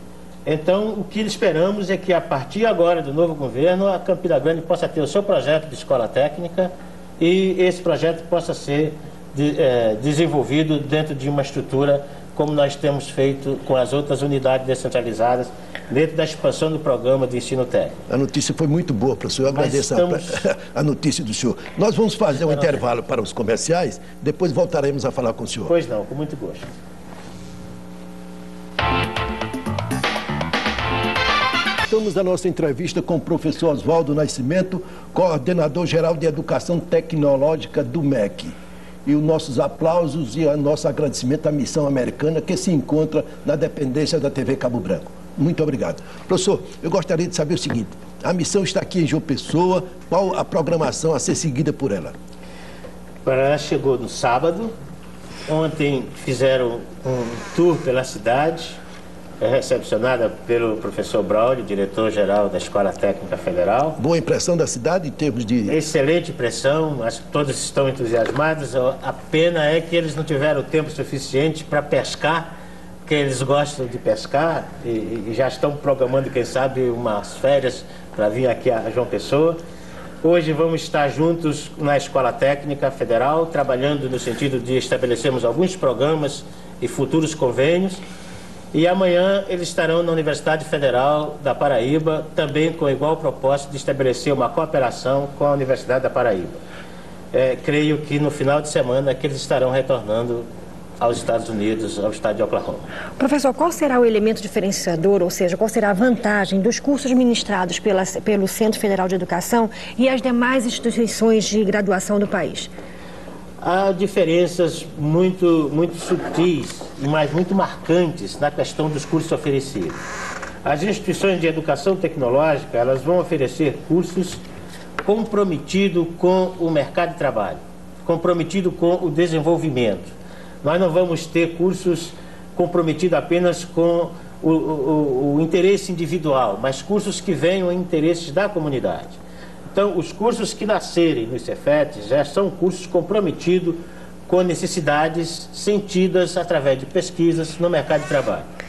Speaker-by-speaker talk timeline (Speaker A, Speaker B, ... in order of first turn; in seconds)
Speaker A: 0.5-18.0, 19.5-20.2, 22.5-22.8, 25.7-26.7, 53.2-54.7, 55.5-58.8, 59.4-64.0, 65.7-72.5, 73.1-79.6, 80.2-88.0, 88.7-96.6, 97.3-100.5, 101.0-102.9, 113.6-120.0, 120.6-124.4, 125.0-130.1, 130.6-139.2, 139.7-148.5
Speaker B: 18.1-25.7, 31.9-38.5, 39.1-52.1, 64.0-65.8
Speaker C: 103.2-112.7